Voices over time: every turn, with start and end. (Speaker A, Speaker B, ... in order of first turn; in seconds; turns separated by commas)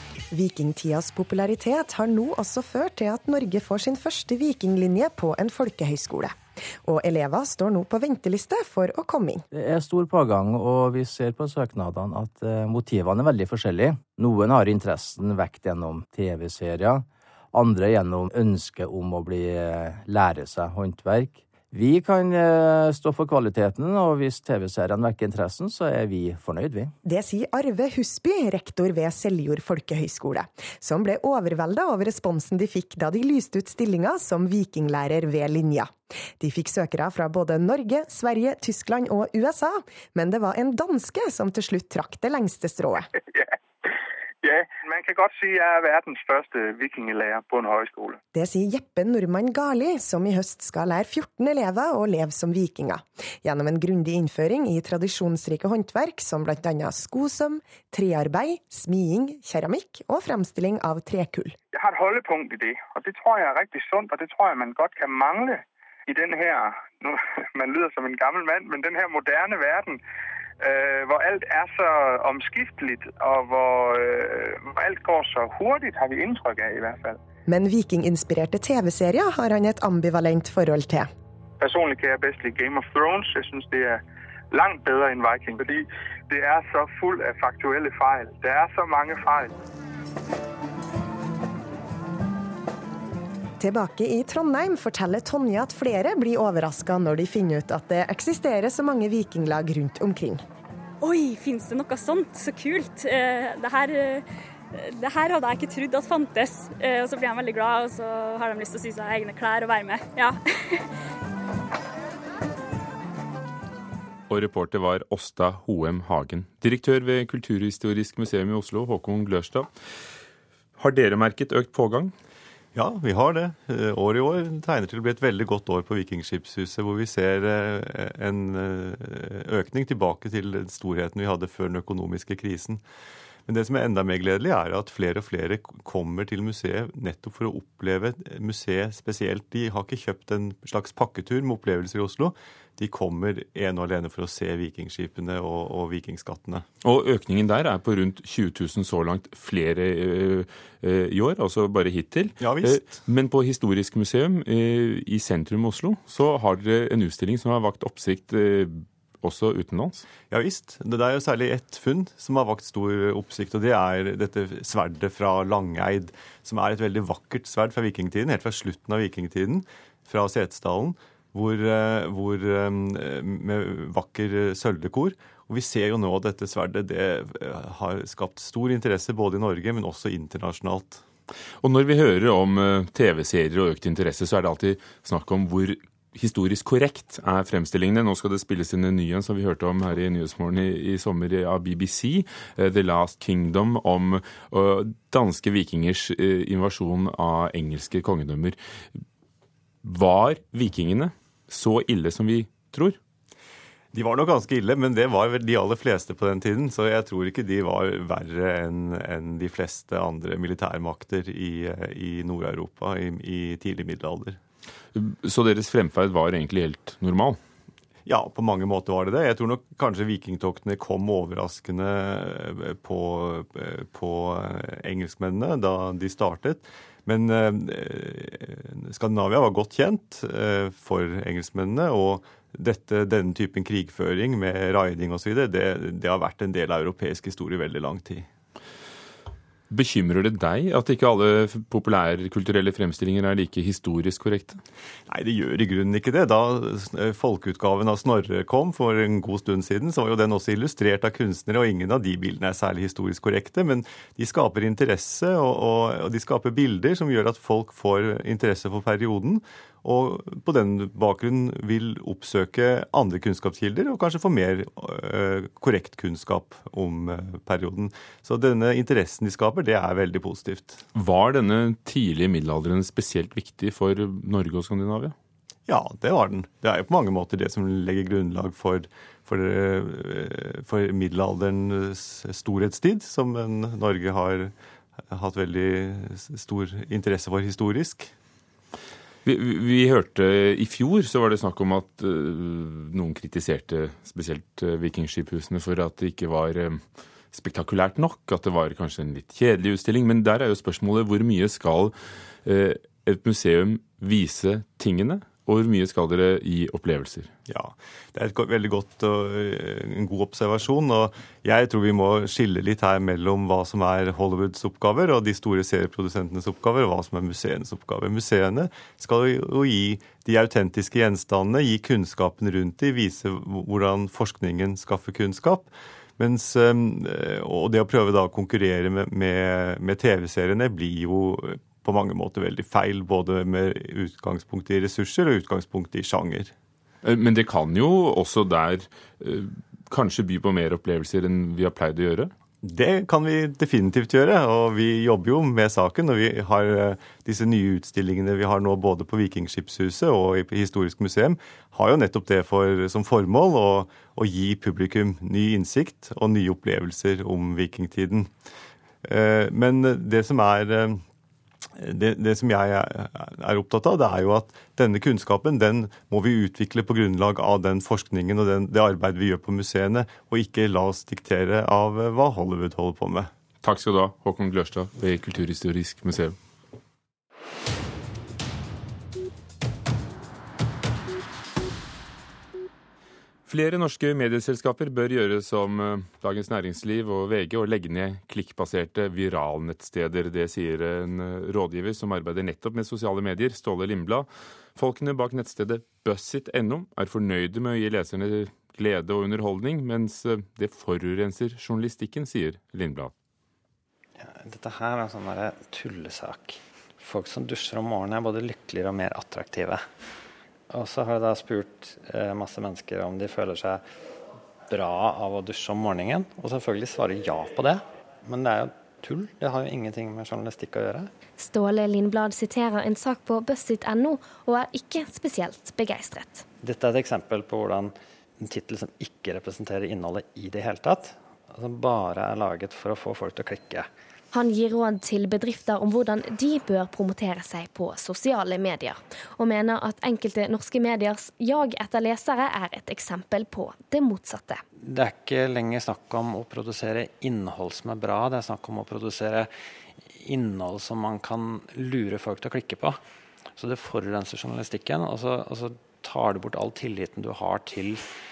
Speaker A: 0.3-9.4, Speaker B: 9.5-26.9, Speaker A: 27.1-43.1, Speaker C: 43.3-48.2, Speaker A: 48.3-61.5, Speaker C: 61.7-70.0, Speaker C: 70.6-77.2, Speaker A: 77.5-81.1, Speaker C: 81.6-84.0, Speaker C: 84.5-89.5, Speaker A: 93.6-100.4, Speaker D: 101.0-110.9, Speaker E: 114.3-119.7, Speaker E: 120.8-122.1, Speaker F: 122.8-132.8, Speaker F: 133.5-146.7, Speaker E: 146.8-160.1, Speaker F: 152.4-152.9, Speaker F: 160.3-181.0, Speaker E: 181.6-198.6, Speaker E: 199.8-203.0, Speaker F: 203.9-214.4, Speaker E: 214.9-217.4, Speaker F: 218.1-238.3, Speaker E: 239.7-244.6, Speaker F: 245.1-270.8, Speaker E: 270.9-275.1, Speaker F: 275.7-284.5, Speaker F: 285.1-288.1, Speaker E: 289.3-296.8, Speaker E: 297.3-301.9, Speaker E: 302.4-307.3, Speaker F: 307.5-336.5, Speaker E: 337.0-342.3, Speaker F: 342.6-358.3, Speaker F: 359.0-361.0, Speaker F: 361.8-373.3, Speaker E: 373.6-376.4, Speaker E: 383.5-403.1, Speaker G: 404.2-409.9, Speaker G: 410.7-413.8, Speaker G: 414.7-421.1, Speaker H: 421.4-426.4, Speaker G: 426.6-433.9, Speaker H: 434.3-444.6, Speaker G: 444.8-449.5, Speaker G: 450.1-453.0, Speaker G: 453.6-458.1